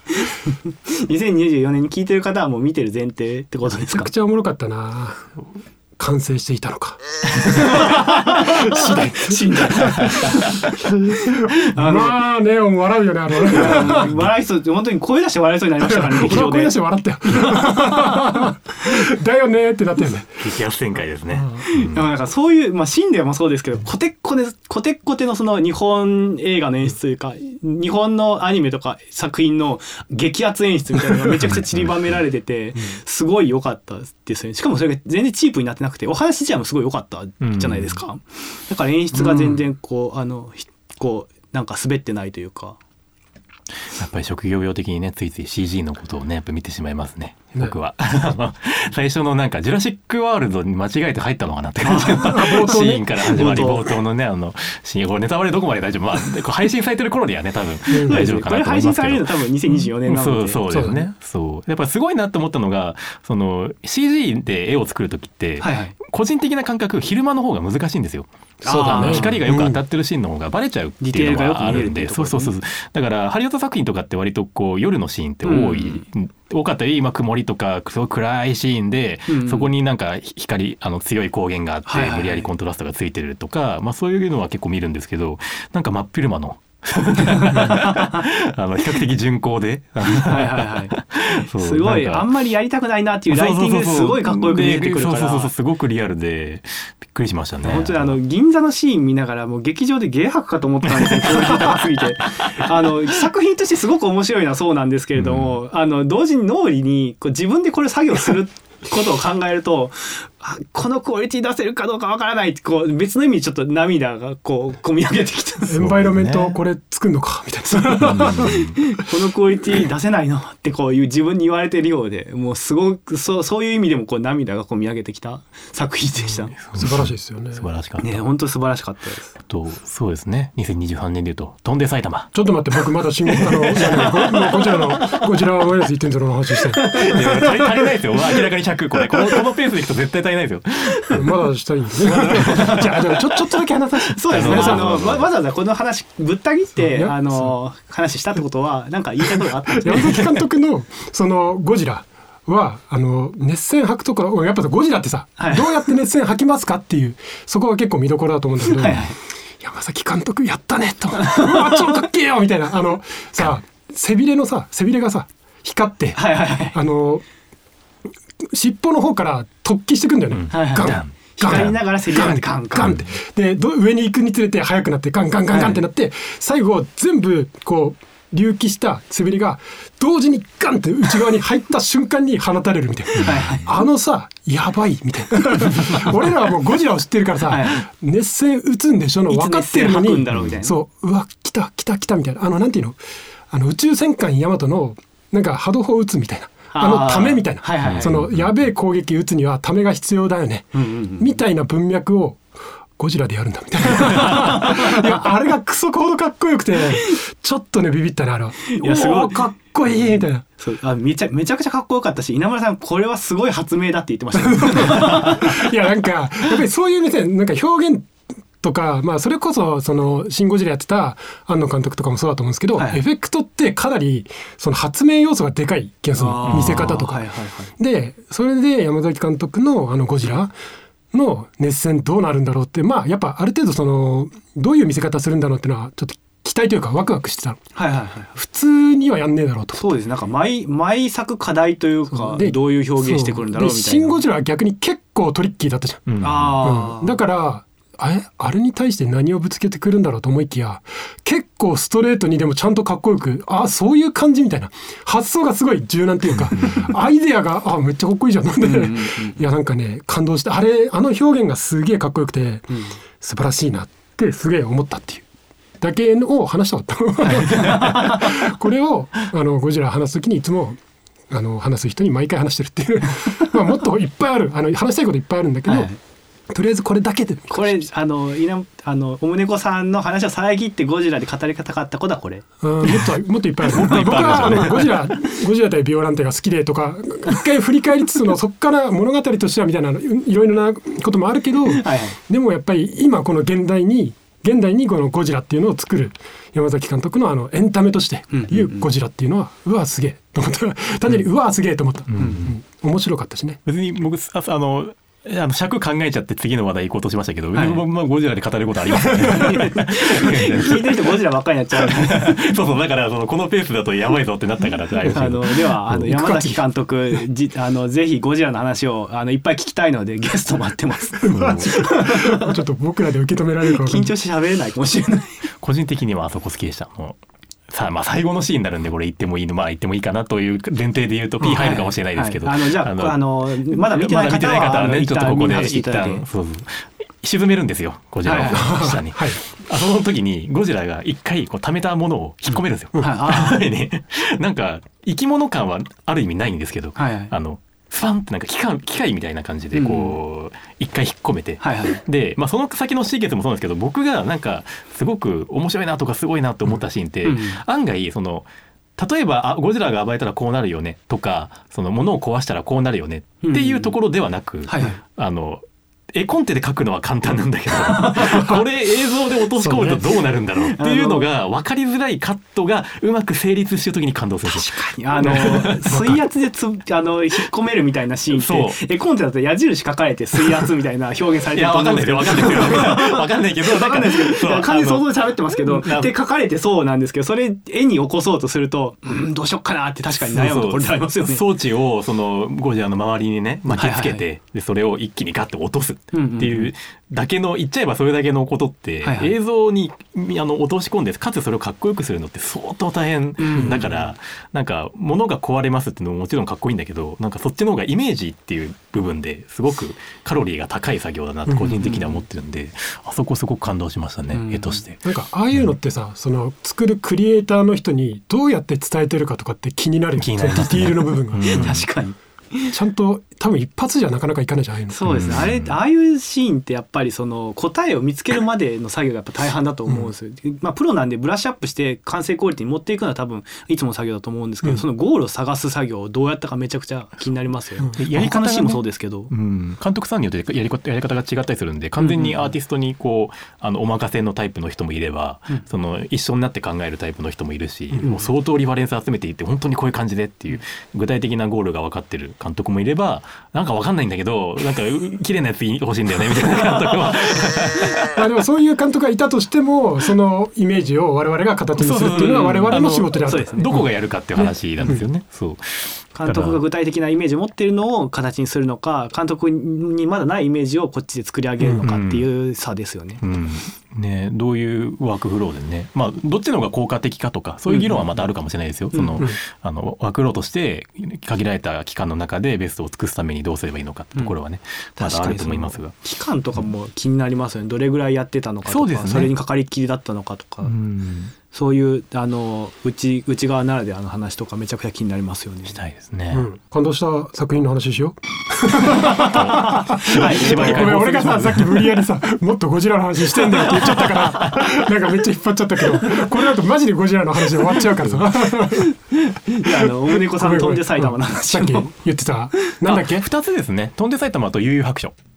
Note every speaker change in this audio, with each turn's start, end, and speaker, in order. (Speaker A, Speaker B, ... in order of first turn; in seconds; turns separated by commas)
Speaker A: 0.1-4.1, Speaker B: 3.7-5.3, Speaker B: 6.0-10.2, Speaker A: 7.4-10.7, Speaker B: 10.8-14.2, Speaker A: 11.3-12.2, Speaker A: 13.4-18.4, Speaker B: 15.8-20.3, Speaker C: 20.4-22.1, Speaker B: 21.3-21.6, Speaker A: 21.7-42.8, Speaker C: 37.4-38.0, Speaker C: 39.1-39.6, Speaker C: 43.9-92.3, Speaker A: 51.8-54.0, Speaker B: 52.2-53.1, Speaker A: 57.9-60.6, Speaker B: 57.9-58.3, Speaker B: 60.7-61.1, Speaker A: 65.6-66.0, Speaker A: 68.6-69.4, Speaker B: 68.9-69.8, Speaker A: 71.0-72.5, Speaker A: 75.4-76.0, Speaker A: 79.3-79.7, Speaker A: 81.8-82.5, Speaker A: 87.3-88.1, Speaker A: 90.1-95.5, Speaker C: 93.3-98.2, Speaker A: 97.6-115.8, Speaker C: 100.9-101.8, Speaker C: 105.2-105.6, Speaker B: 115.6-118.7, Speaker C: 115.8-116.5, Speaker C: 118.0-118.8, Speaker A: 118.0-126.6, Speaker C: 126.6-128.2, Speaker B: 126.7-127.7, Speaker A: 128.0-129.3, Speaker C: 129.5-132.3, Speaker B: 132.3-137.9, Speaker A: 133.4-134.9, Speaker C: 133.7-134.3, Speaker A: 136.7-137.2, Speaker C: 136.8-141.2, Speaker B: 141.1-145.0, Speaker C: 142.2-143.2, Speaker A: 142.4-142.9, Speaker A: 144.1-150.4, Speaker C: 144.3-145.3, Speaker B: 146.8-147.5, Speaker B: 149.3-167.2, Speaker A: 155.4-155.8, Speaker A: 158.7-159.1, Speaker A: 161.3-161.6, Speaker A: 166.1-166.8, Speaker B: 168.5-193.0, Speaker C: 170.3-171.8, Speaker A: 170.5-172.9, Speaker C: 172.8-173.1, Speaker A: 175.5-175.8, Speaker A: 183.2-183.8, Speaker A: 187.5-187.8, Speaker A: 189.3-190.7, Speaker B: 193.5-202.4, Speaker A: 196.7-198.1, Speaker C: 197.8-198.6, Speaker A: 200.7-201.4, Speaker B: 203.0-210.4, Speaker A: 204.1-204.9, Speaker A: 208.7-209.4, Speaker A: 210.6-215.7, Speaker B: 214.3-230.5, Speaker A: 222.8-223.0, Speaker A: 226.1-227.7, Speaker B: 231.1-237.6, Speaker A: 237.7-238.3, Speaker B: 238.3-239.9, Speaker A: 239.7-244.2, Speaker B: 242.1-265.2, Speaker C: 246.1-246.6, Speaker A: 246.2-247.2, Speaker A: 258.6-259.4, Speaker B: 265.8-270.8, Speaker A: 267.8-268.2, Speaker B: 271.3-275.9, Speaker A: 275.6-276.0, Speaker B: 276.5-277.9, Speaker A: 277.5-283.1, Speaker B: 282.6-303.6, Speaker C: 283.6-285.0, Speaker A: 283.8-284.8, Speaker A: 291.6-292.2, Speaker A: 298.3-298.9, Speaker C: 302.1-302.5, Speaker A: 302.2-302.4, Speaker C: 303.6-311.2, Speaker A: 307.5-307.8, Speaker A: 309.1-312.5, Speaker C: 311.7-315.7, Speaker A: 315.1-322.6, Speaker B: 315.9-316.6, Speaker B: 321.2-324.1, Speaker C: 321.3-321.7, Speaker A: 323.6-325.4, Speaker C: 325.6-327.2, Speaker C: 327.7-376.2, Speaker A: 331.4-336.2, Speaker A: 338.2-338.7, Speaker B: 338.5-339.4, Speaker A: 342.5-343.7, Speaker A: 346.9-347.3, Speaker A: 349.7-350.2, Speaker A: 351.6-352.0, Speaker A: 357.2-357.6, Speaker A: 363.4-363.9, Speaker A: 364.7-365.0, Speaker A: 367.8-368.6, Speaker B: 369.6-370.0, Speaker A: 370.2-371.3, Speaker A: 374.5-391.4, Speaker B: 375.2-376.2, Speaker C: 378.3-378.8, Speaker C: 381.5-386.1, Speaker C: 390.2-415.0, Speaker A: 393.7-394.2, Speaker A: 396.1-396.7, Speaker A: 399.0-399.3, Speaker A: 403.4-404.0, Speaker B: 411.5-411.8, Speaker A: 411.7-412.2, Speaker A: 414.3-414.8, Speaker B: 415.0-421.8, Speaker C: 420.2-421.9, Speaker A: 421.4-422.7, Speaker B: 422.7-425.3, Speaker A: 424.9-439.3, Speaker C: 425.1-425.7, Speaker B: 429.9-430.1, Speaker C: 437.9-458.1, Speaker A: 442.0-442.5, Speaker B: 458.1-465.1, Speaker C: 461.8-466.6, Speaker A: 462.1-463.8, Speaker A: 466.1-473.2, Speaker B: 471.6-471.8, Speaker C: 471.8-472.3, Speaker C: 473.2-485.9, Speaker A: 477.7-478.1, Speaker A: 478.9-479.2, Speaker A: 485.0-490.7, Speaker C: 488.7-489.3, Speaker C: 490.6-491.3, Speaker A: 491.5-495.8, Speaker C: 495.6-496.4, Speaker B: 496.3-509.0, Speaker A: 499.0-501.4, Speaker C: 499.2-501.9, Speaker C: 503.7-504.6, Speaker A: 507.9-511.9, Speaker B: 509.5-513.2, Speaker C: 512.8-515.1